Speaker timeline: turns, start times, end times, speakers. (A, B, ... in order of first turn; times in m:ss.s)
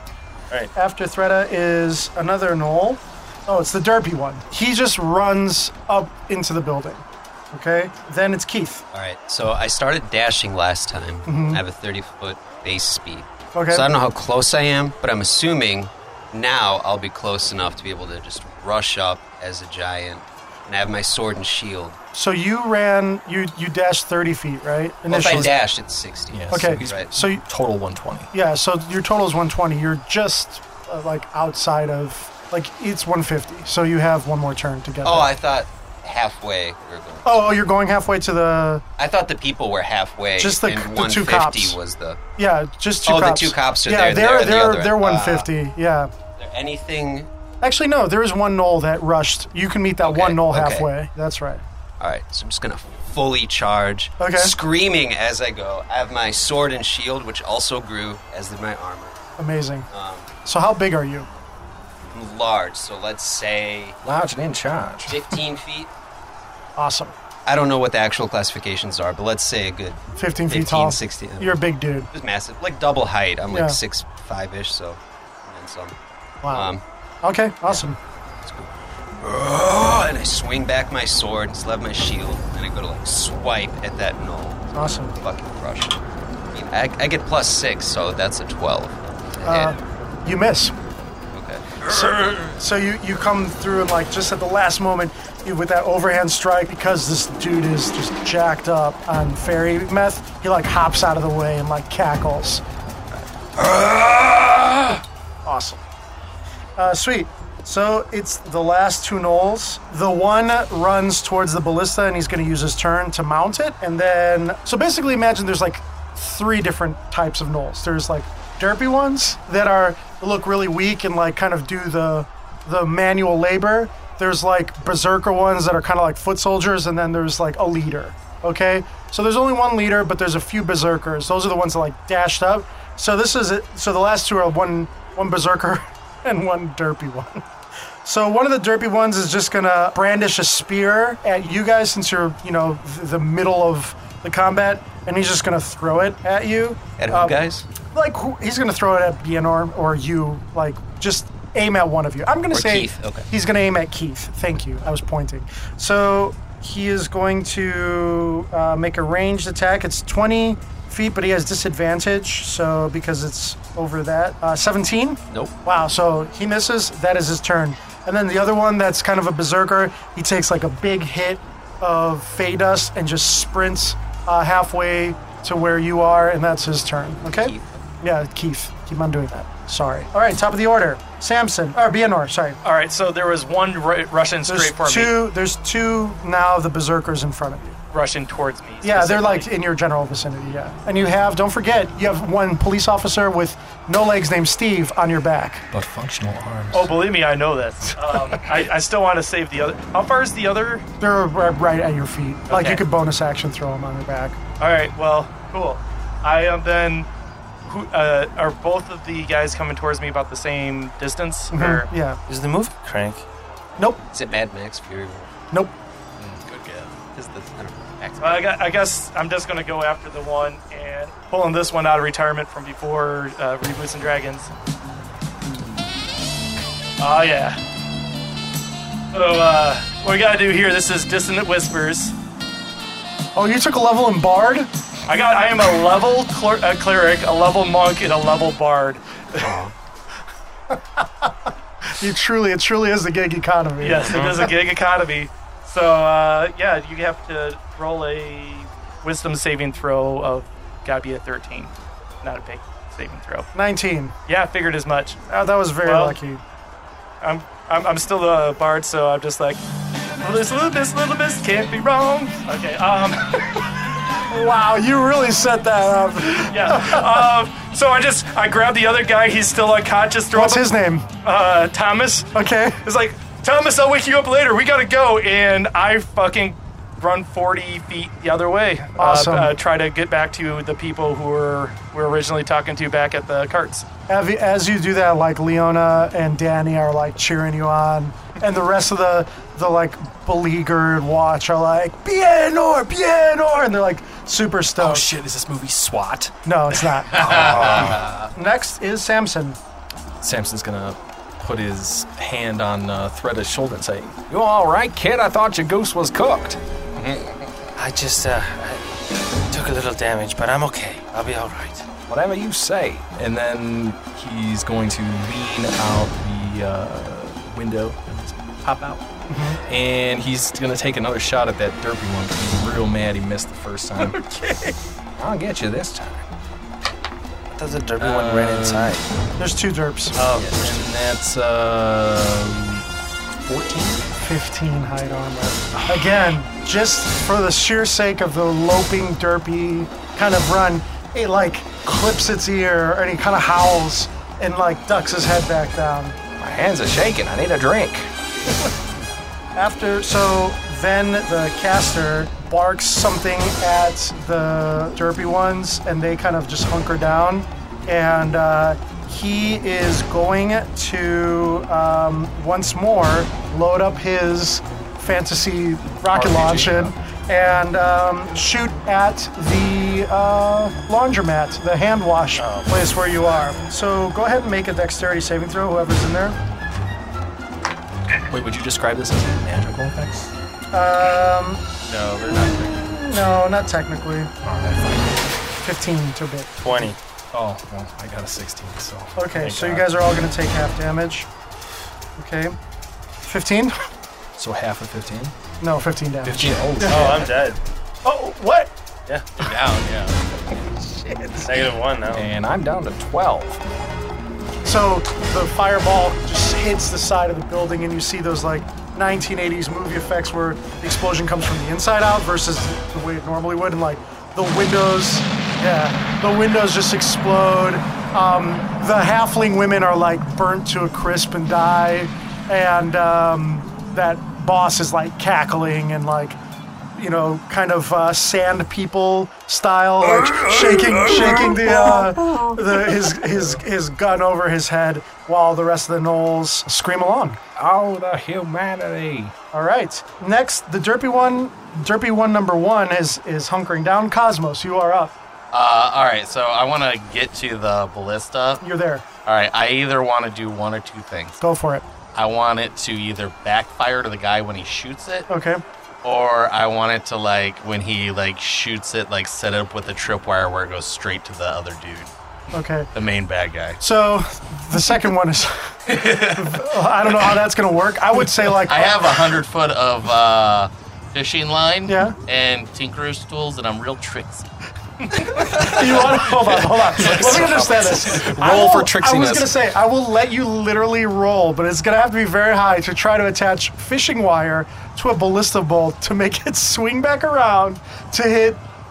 0:00.7-0:08.8 A
0:08.9-0:22.0 B
0:11.3-0:11.6 A
0:13.5-0:13.9 A
0:22.1-0:25.5 A
0:25.1-0:27.1 B
0:26.3-0:28.3 C
0:26.5-0:27.4 A
0:28.3-0:35.3 A
0:35.0-0:37.5 B
0:37.2-0:38.8 A
0:39.0-0:42.2 B
0:40.4-0:41.8 A
0:42.4-0:46.1 A
0:43.0-0:45.5 B
0:46.4-0:47.3 B
0:47.6-0:51.6 A
0:50.0-0:50.9 B
0:52.0-0:59.2 B
0:54.2-0:54.5 A
0:59.4-0:59.9 A
0:59.9-1:00.3 B
1:00.4-1:01.3 A
1:02.1-1:04.0 B
1:04.0-1:05.3 C
1:05.0-1:05.9 B
1:06.8-1:07.1 A
1:07.4-1:16.0 B
1:10.2-1:12.1 A
1:13.5-1:13.8 A
1:16.4-1:16.7 A
1:16.5-1:16.8 B
1:17.2-1:18.0 A
1:18.4-1:26.0 B
1:24.7-1:25.2 A
1:26.5-1:29.8 B
1:29.4-1:30.7 A
1:31.3-1:32.5 B
1:31.8-1:42.6 A
1:43.6-1:44.8 B
1:45.4-1:45.8 A
1:46.8-2:17.4 A
2:18.0-2:27.4 A
2:27.0-2:27.7 B
2:27.9-3:02.6 A
2:32.5-2:33.3 B
2:57.2-2:57.8 B
3:02.6-3:05.2 D
3:04.4-3:07.8 A
3:07.9-3:09.5 D
3:08.8-3:15.6 A
3:15.7-3:16.9 C
3:16.7-3:20.8 D
3:21.0-3:24.4 A
3:22.5-3:22.8 D
3:24.6-3:27.1 D
3:27.6-3:31.9 D
3:31.5-3:32.2 A
3:32.3-3:33.2 E
3:34.1-3:35.3 B
3:36.2-3:37.0 F
3:37.1-3:38.4 B
3:38.2-3:44.5 D
3:47.0-3:47.6 D
3:49.1-3:52.1 D
3:53.3-3:54.7 A
3:55.1-3:59.4 D
3:59.4-3:59.7 B
4:00.7-4:01.3 A
4:01.9-4:04.4 A
4:03.8-4:13.5 D
4:04.1-4:04.4 E
4:13.5-4:14.1 A
4:14.3-4:15.2 D
4:15.3-4:16.4 A
4:15.8-4:16.2 D
4:17.2-4:19.6 D
4:20.2-4:23.6 D
4:24.3-4:27.2 A
4:26.3-4:43.9 D
4:30.3-4:31.1 A
4:32.3-4:32.8 A
4:39.0-4:39.5 A
4:44.1-4:55.1 A
4:54.8-4:56.3 C
4:56.4-4:59.6 A
4:57.1-4:58.2 F
4:57.5-4:57.8 C
5:00.2-5:06.6 C
5:07.0-5:07.4 B
5:07.8-5:08.9 E
5:09.5-5:11.9 E
5:12.1-5:19.0 C
5:19.3-5:19.6 A
5:19.7-5:24.2 C
5:24.2-5:24.7 A
5:25.2-5:26.2 C
5:27.5-5:29.0 E
5:28.0-5:29.0 C
5:29.4-5:30.2 A
5:30.1-5:30.9 E
5:30.4-5:32.8 C
5:33.4-5:34.1 C
5:34.2-5:46.2 A
5:35.7-5:36.2 C
5:46.4-5:48.1 C
5:49.6-6:16.4 A
6:06.1-6:06.9 C
6:12.4-6:12.9 E
6:18.3-6:20.3 C
6:20.7-6:21.6 A
6:21.9-6:22.9 F
6:22.6-6:24.3 A
6:24.4-6:25.2 C
6:25.5-6:26.9 A
6:26.6-6:27.0 E
6:27.3-6:29.6 C
6:29.2-6:31.3 A
6:29.5-6:29.8 E
6:32.2-6:32.5 A
6:33.2-6:33.8 A
6:34.4-6:35.3 C
6:35.6-6:37.1 A
6:36.2-6:37.3 C
6:36.8-6:37.6 E
6:38.0-6:38.7 A
6:39.1-6:39.3 E
6:39.4-6:40.2 F
6:41.4-6:42.3 E
6:42.1-6:43.6 C
6:44.6-7:06.4 A
7:07.0-7:17.4 A
7:10.2-7:12.5 C
7:17.6-7:19.3 C
7:19.5-7:25.1 A
7:25.5-7:28.6 F
7:28.6-7:29.0 A
7:29.2-7:31.4 F
7:31.4-7:31.8 A
7:32.1-7:35.3 F
7:35.3-7:35.6 A
7:36.0-7:42.1 F
7:42.5-7:42.9 A
7:42.9-7:43.8 F
7:43.8-7:49.4 A
7:45.9-7:47.4 F
7:48.2-7:54.5 F
7:51.9-7:52.1 A
7:55.1-7:56.3 F
7:55.3-7:59.5 C
7:55.6-8:08.6 A
7:56.9-7:57.7 F